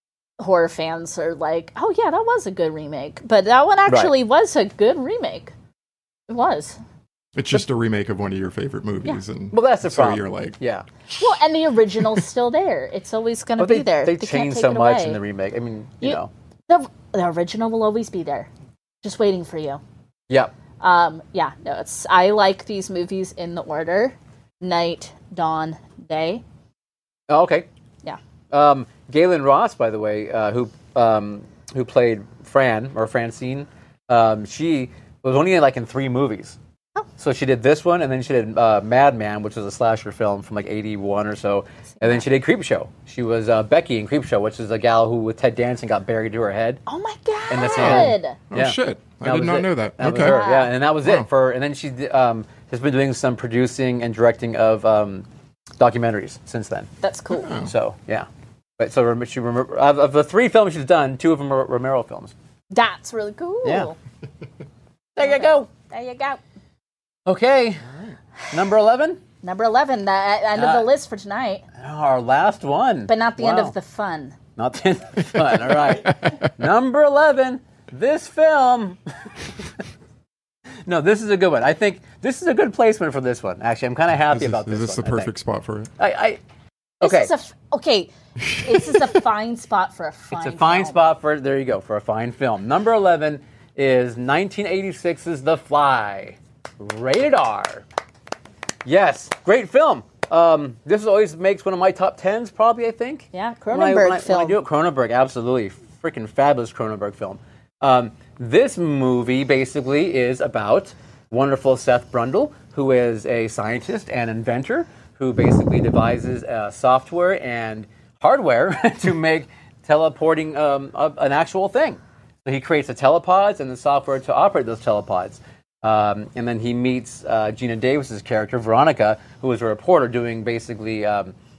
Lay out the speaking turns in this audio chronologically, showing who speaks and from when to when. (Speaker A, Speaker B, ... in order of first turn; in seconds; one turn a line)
Speaker A: 0.4-5.5
Speaker B: 3.9-4.1
Speaker A: 6.3-6.8
Speaker C: 7.3-10.6
Speaker B: 9.5-10.8
Speaker A: 11.1-15.2
Speaker B: 13.6-16.3
Speaker A: 16.0-18.5
Speaker A: 19.0-19.8
Speaker A: 20.8-26.4
Speaker B: 27.3-27.7
Speaker B: 28.5-36.6
Speaker B: 37.2-46.8
Speaker A: 46.9-48.4
Speaker B: 47.5-55.2
Speaker C: 47.7-50.4
Speaker A: 50.1-50.7
Speaker B: 55.8-56.9
Speaker A: 57.0-57.5
Speaker C: 57.4-57.7
Speaker B: 57.6-58.3
Speaker B: 58.8-62.3
Speaker A: 62.7-63.9
Speaker B: 63.6-63.9
Speaker B: 65.2-65.7
Speaker A: 65.2-66.4
Speaker B: 67.2-67.8
Speaker B: 68.5-69.2
Speaker A: 69.4-71.6
Speaker B: 70.5-70.9
Speaker B: 71.8-73.7
Speaker A: 73.1-74.4
Speaker B: 74.5-79.0
Speaker C: 75.5-76.5
Speaker B: 80.8-85.3
Speaker C: 84.3-85.9
Speaker B: 86.0-86.4
Speaker B: 87.0-87.3
Speaker A: 87.0-91.0
Speaker C: 88.4-89.0
Speaker B: 90.3-97.8
Speaker B: 98.8-131.3
Speaker A: 103.3-104.6